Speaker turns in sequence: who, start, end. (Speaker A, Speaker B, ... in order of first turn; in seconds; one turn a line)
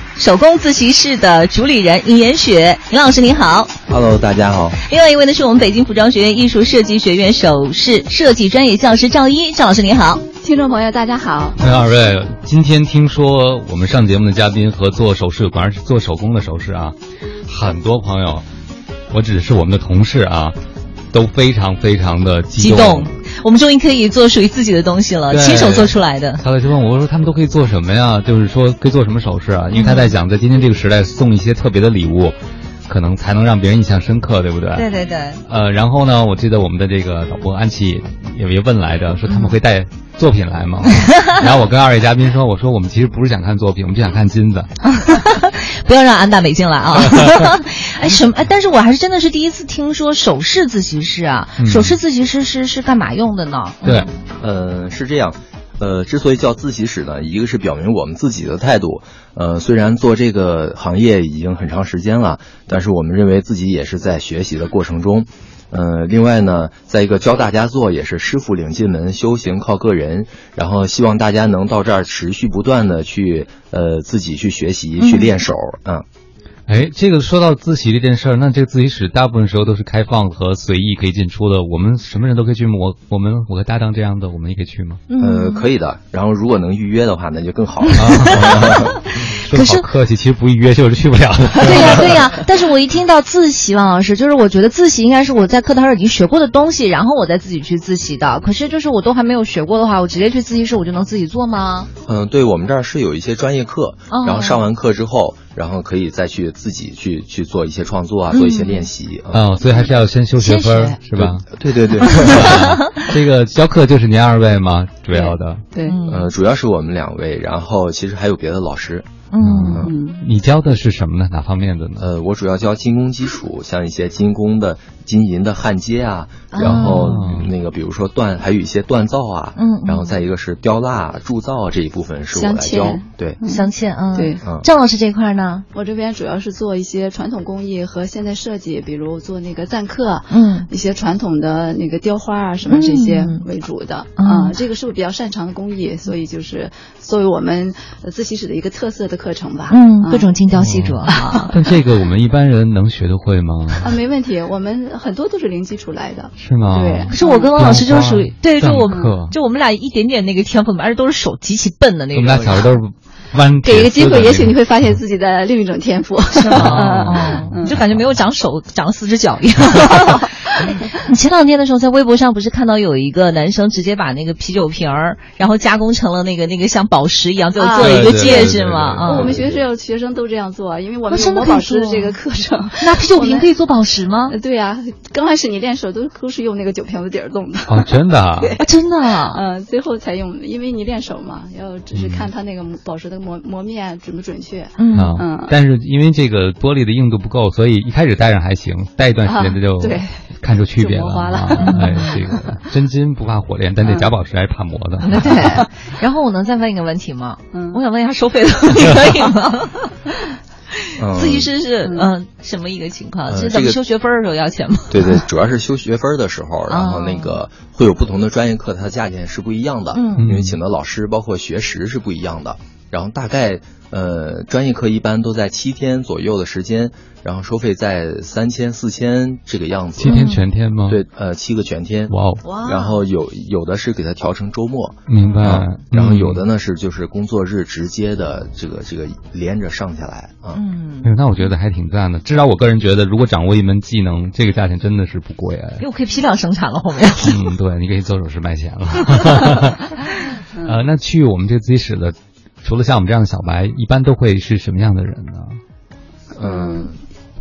Speaker A: 0.1-3.7
Speaker B: 3.9-4.8
Speaker A: 4.8-10.2
Speaker C: 10.4-11.6
Speaker D: 11.6-16.9
Speaker D: 17.5-18.4
Speaker D: 19.1-20.6
Speaker D: 21.1-23.1
Speaker A: 22.6-26.4
Speaker D: 25.3-32.3
Speaker A: 29.7-30.1
Speaker D: 32.9-34.8
Speaker A: 34.7-35.4
Speaker D: 35.5-44.7
Speaker A: 39.3-39.6
Speaker A: 44.8-54.1
Speaker D: 51.6-52.0
Speaker B: 54.4-76.0
Speaker A: 75.0-75.3
Speaker D: 76.7-85.0
Speaker A: 85.1-85.6
Speaker B: 85.2-88.9
Speaker D: 88.0-92.2
Speaker A: 89.5-89.9
Speaker A: 91.6-101.9
Speaker B: 102.0-109.5
Speaker A: 104.1-104.6
Speaker A: 108.3-108.9
Speaker D: 109.3-111.5
Speaker A: 110.4-111.0
Speaker B: 111.1-112.6
Speaker D: 112.1-115.6
Speaker A: 112.2-112.7
Speaker C: 115.1-116.0
Speaker A: 115.8-116.3
Speaker B: 116.1-119.0
Speaker A: 119.3-119.8
Speaker D: 119.4-122.0
Speaker C: 119.8-120.3
Speaker B: 122.0-133.4
Speaker A: 126.5-127.1
Speaker D: 126.6-127.5
Speaker A: 129.6-130.1
Speaker C: 132.3-134.4
Speaker A: 133.4-135.7
Speaker B: 134.4-134.7
Speaker C: 135.7-150.3
Speaker A: 140.3-140.7
Speaker A: 142.7-143.4
Speaker A: 144.2-144.6
Speaker A: 149.7-151.5
Speaker D: 150.5-153.9
Speaker C: 151.1-151.7
Speaker C: 153.8-157.7
Speaker D: 156.4-159.3
Speaker A: 157.1-162.7
Speaker C: 158.9-159.2
Speaker D: 162.1-164.7
Speaker C: 163.6-167.8
Speaker A: 166.3-179.3
Speaker D: 166.6-168.0
Speaker C: 177.6-183.5
Speaker D: 177.8-179.4
Speaker B: 179.1-179.6
Speaker A: 181.1-182.2
Speaker A: 182.8-184.3
Speaker C: 184.3-188.6
Speaker D: 187.7-188.6
Speaker A: 188.6-189.4
Speaker C: 189.2-195.6
Speaker D: 191.9-192.3
Speaker A: 194.8-195.2
Speaker D: 194.9-205.3
Speaker C: 199.2-200.1
Speaker A: 200.8-202.1
Speaker C: 201.5-202.3
Speaker C: 203.8-204.1
Speaker A: 205.0-209.9
Speaker C: 207.5-207.8
Speaker B: 211.0-211.5
Speaker A: 211.1-215.2
Speaker C: 211.8-212.1
Speaker B: 213.3-213.8
Speaker B: 214.9-230.2
Speaker A: 216.7-217.4
Speaker A: 219.9-220.3
Speaker D: 220.2-220.6
Speaker D: 230.0-231.0
Speaker A: 230.0-230.4
Speaker B: 230.9-240.6
Speaker D: 232.1-232.4
Speaker A: 232.4-233.0
Speaker D: 235.1-236.4
Speaker A: 235.2-235.4
Speaker A: 240.5-241.5
Speaker D: 241.0-245.8
Speaker A: 245.8-247.3
Speaker D: 247.2-250.0
Speaker D: 250.6-255.6
Speaker B: 256.3-257.0
Speaker C: 256.4-256.9